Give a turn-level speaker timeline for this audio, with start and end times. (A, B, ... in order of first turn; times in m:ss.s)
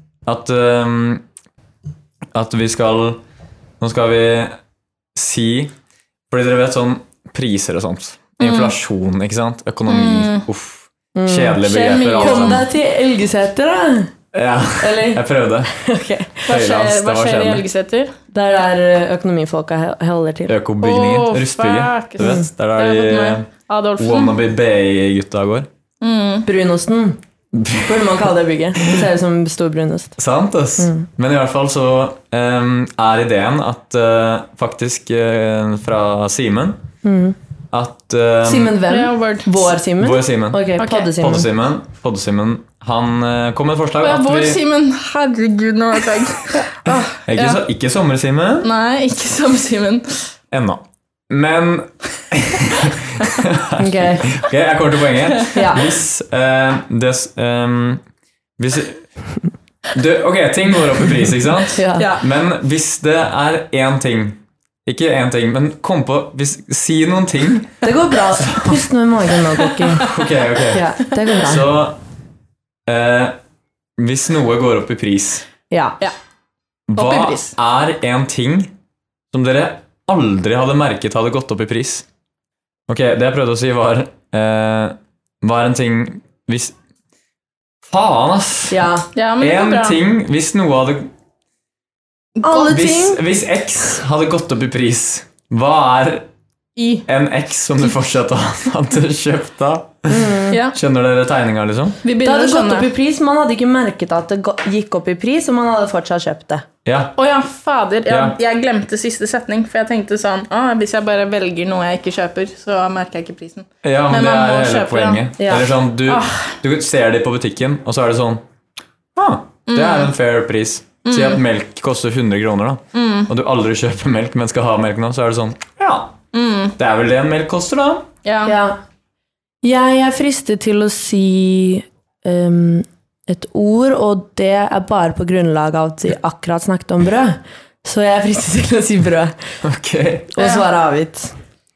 0:00.3-0:01.2 A
0:02.3-0:03.2 A
0:03.8-0:04.6 A
0:05.2-0:05.7 A
0:06.3-0:12.6 A
0:08.4-0:08.7 B
0:09.9-0:10.4 B
0:11.2-0:14.1 C
0:11.6-0:12.6 B
0:14.3-0:15.7 A
0:14.8-0:16.5 C
0:16.5-0:17.6 A
0:16.5-0:18.1 B
0:18.3-0:20.6 C
0:20.5-0:23.5 A
0:20.8-0:24.4 B
0:22.2-0:22.5 C
0:24.0-0:25.7 A
0:26.0-0:26.5 B
0:26.4-0:27.2 C
0:27.5-0:28.1 A
0:27.8-0:30.2 C
0:30.2-0:36.8 A
0:30.8-0:31.1 C
0:37.0-0:37.4 C
0:37.7-0:38.8 A
0:38.4-0:41.5 C
0:38.9-0:39.7 B
0:40.0-0:44.6 A
0:40.8-0:41.1 B
0:44.0-0:47.6 B
0:47.2-0:48.7 A
0:48.6-0:50.3 B
0:50.5-0:58.0 A
0:53.8-0:54.3 C
0:55.6-0:55.9 C
0:58.6-0:59.0 A
0:59.9-1:07.8 A
1:01.8-1:02.1 C
1:02.0-1:02.2 B
1:07.8-1:10.1 C
1:08.3-1:08.8 A
1:10.0-1:12.0 A
1:10.7-1:11.7 C
1:12.9-1:13.4 A
1:14.0-1:15.4 A
1:15.7-1:16.0 C
1:16.9-1:18.7 A
1:17.0-1:17.6 B
1:19.3-1:22.0 A
1:22.9-1:26.7 A
1:27.9-1:28.8 A
1:28.7-1:29.1 C
1:29.2-1:30.0 B
1:29.4-1:31.1 A
1:32.4-1:32.7 B
1:32.4-1:33.2 C
1:32.7-1:36.3 A
1:36.8-1:37.1 B
1:37.1-1:42.0 A
1:40.1-1:40.6 C
1:40.5-1:40.8 B
1:42.0-1:42.9 B
1:42.2-1:46.7 C
1:46.8-1:47.2 A
1:47.2-1:55.2 B
1:48.1-1:48.4 A
1:53.8-1:58.4 A
1:55.4-1:55.7 C
1:56.1-1:56.5 B
1:59.2-2:06.2 A
1:59.7-2:00.1 B
2:01.0-2:01.4 B
2:02.9-2:03.3 B
2:06.3-2:06.8 B
2:06.8-2:08.1 A
2:08.2-2:08.6 B
2:08.5-2:08.8 C
2:09.6-2:19.4 C
2:19.6-2:20.3 A
2:20.3-2:21.4 C
2:20.4-2:20.7 B